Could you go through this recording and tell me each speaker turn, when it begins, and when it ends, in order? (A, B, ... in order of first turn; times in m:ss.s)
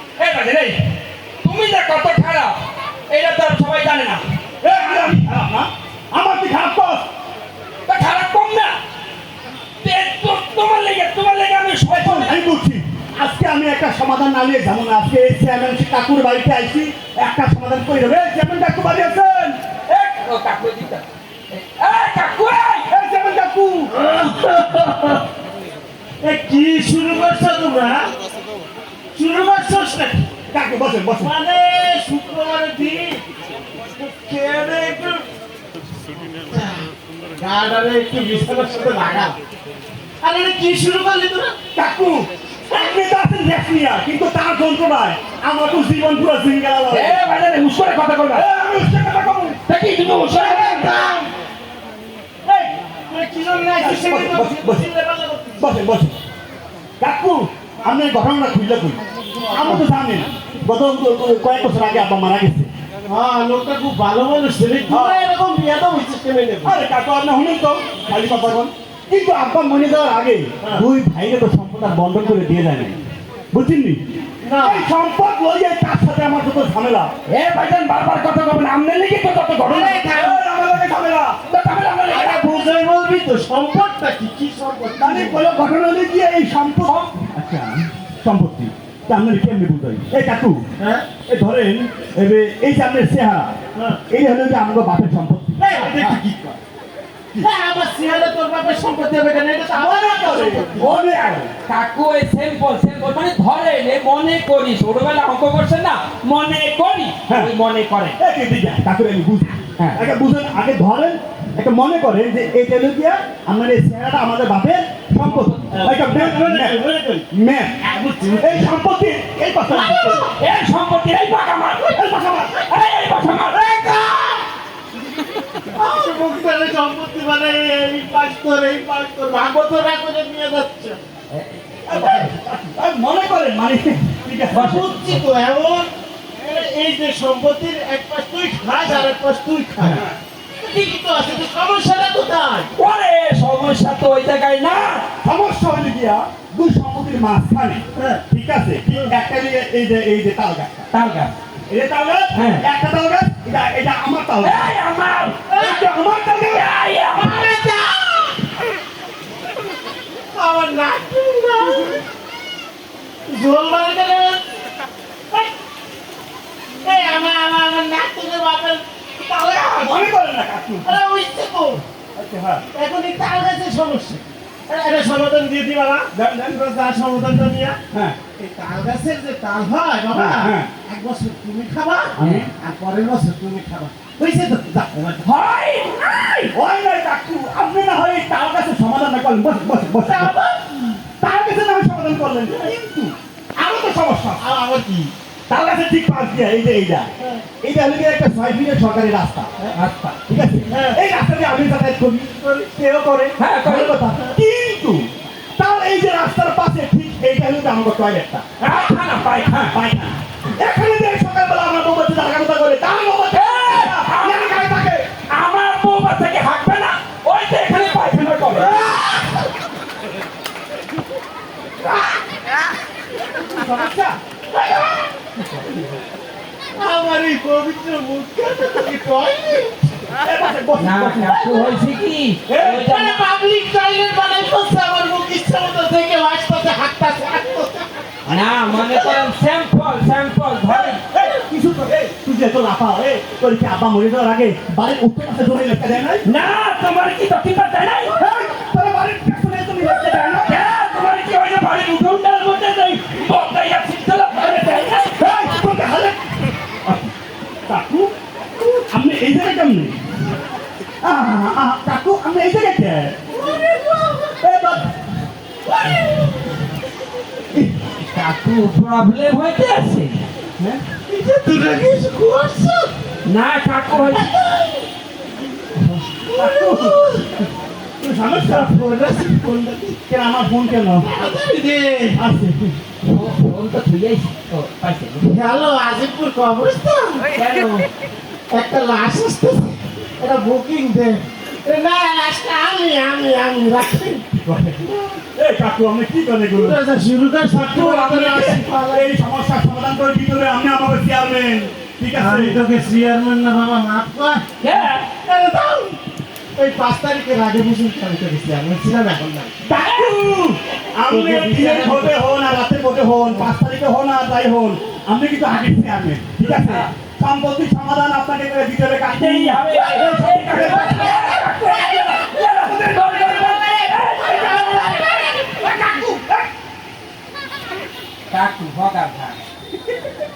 0:00.2-0:02.6 A
0:03.1-0:04.2 A
0:04.6-0:07.0 B
0:07.9-0:08.8 A
0:09.8-0:12.4 A
0:11.9-0:19.6 B
0:19.9-0:22.9 A
0:22.9-0:24.0 B
0:24.0-0:25.2 C
0:26.2-0:28.1 C
0:29.1-0:30.3 C
0:30.5-0:31.3 B
0:31.2-0:33.2 C
0:33.9-0:35.3 C
0:36.5-0:39.4 C
0:40.2-0:41.6 C
0:41.7-0:47.2 B
0:46.9-0:48.4 A
0:48.3-0:49.6 B
0:49.7-0:51.0 A
0:50.2-0:51.3 C
0:52.4-0:52.7 B
0:53.1-0:55.7 C
0:53.8-0:54.9 B
0:55.6-0:56.2 B
0:57.0-0:59.0 B
0:59.4-0:59.9 C
0:59.5-1:02.7 B
1:03.1-1:06.9 C
1:04.9-1:05.2 B
1:06.6-1:13.0 B
1:13.5-1:14.0 B
1:14.4-1:14.9 C
1:14.6-1:17.1 B
1:17.3-1:20.1 A
1:19.7-1:20.4 C
1:19.8-1:21.4 B
1:21.4-1:22.4 A
1:22.1-1:25.5 C
1:25.0-1:30.6 B
1:26.8-1:27.2 A
1:30.8-1:31.1 C
1:31.3-1:33.6 B
1:33.8-1:34.0 C
1:34.1-1:36.2 B
1:35.6-1:36.6 C
1:37.4-1:40.9 C
1:39.8-1:41.5 B
1:40.8-1:48.2 A
1:48.2-1:57.8 B
1:55.2-1:55.8 A
1:55.7-1:57.3 C
1:57.8-1:58.7 C
1:58.4-2:00.3 B
1:59.7-2:00.3 C
2:00.2-2:03.6 A
2:01.9-2:02.6 B
2:03.5-2:04.5 C
2:05.7-2:11.0 C
2:11.3-2:12.2 A
2:11.8-2:14.8 B
2:11.9-2:12.3 C
2:14.5-2:15.2 A
2:14.6-2:20.0 C
2:19.8-2:20.2 B
2:20.6-2:22.7 C
2:22.8-2:25.1 A
2:25.2-2:30.9 B
2:28.0-2:28.2 C
2:30.9-2:31.3 A
2:31.7-2:34.7 B
2:32.3-2:32.6 A
2:34.4-2:37.6 A
2:35.5-2:35.8 C
2:35.6-2:36.7 B
2:37.1-2:38.5 C
2:40.3-2:42.0 C
2:43.3-2:44.4 C
2:46.8-2:50.1 C
2:49.7-2:51.0 B
2:50.8-2:51.8 C
2:52.2-2:52.6 B
2:52.7-2:57.8 C
2:56.1-2:56.6 B
2:58.4-3:05.3 C
3:00.1-3:00.7 B
3:02.2-3:02.5 B
3:02.2-3:02.5 A
3:05.2-3:06.5 A
3:06.5-3:10.3 B
3:10.0-3:11.0 C
3:11.2-3:14.4 B
3:14.4-3:15.1 C
3:15.5-3:17.1 B
3:17.6-3:19.5 B
3:19.7-3:20.2 A
3:20.3-3:28.8 B
3:20.7-3:21.0 C
3:23.4-3:24.0 A
3:28.6-3:29.7 A
3:29.6-3:35.1 B
3:33.3-3:34.7 A
3:35.3-3:38.7 A
3:38.6-3:39.4 C
3:43.4-3:44.2 B
3:44.5-3:45.1 C
3:45.5-3:45.8 B
3:46.8-3:50.0 C
3:50.2-3:51.4 B
3:50.8-3:53.2 A
3:51.3-3:51.9 C
3:52.5-3:52.8 B
3:52.6-3:59.1 C
3:58.2-4:01.0 A
4:01.1-4:06.2 B
4:06.2-4:08.2 A
4:08.2-4:10.7 B
4:10.2-4:15.2 A
4:15.1-4:16.2 B
4:16.8-4:17.1 B
4:17.7-4:18.1 B
4:18.9-4:20.0 B
4:21.0-4:23.2 B
4:23.4-4:24.4 C
4:24.4-4:25.0 B
4:25.7-4:26.5 C
4:28.0-4:30.2 A
4:31.1-4:33.0 C
4:33.2-4:34.3 A
4:33.9-4:34.9 C
4:36.2-4:37.5 C
4:36.3-4:37.2 B
4:38.0-4:38.8 B
4:38.4-4:40.0 C
4:40.1-4:41.1 B
4:41.0-4:42.2 C
4:42.2-4:42.8 B
4:43.0-4:45.4 A
4:45.2-4:47.3 C
4:47.4-4:47.9 A
4:48.5-4:54.2 C
4:54.3-4:56.8 B
4:56.5-4:59.2 C
4:57.6-4:58.5 A
4:58.3-5:02.6 B
5:02.1-5:04.5 C
5:04.6-5:05.1 A
5:05.2-5:06.0 C
5:06.6-5:09.6 C
5:09.7-5:21.1 B
5:09.7-5:10.2 A
5:11.1-5:12.2 C
5:16.5-5:16.9 A
5:19.1-5:26.2 A
5:19.8-5:21.5 C
5:24.2-5:26.0 C
5:28.3-5:29.4 A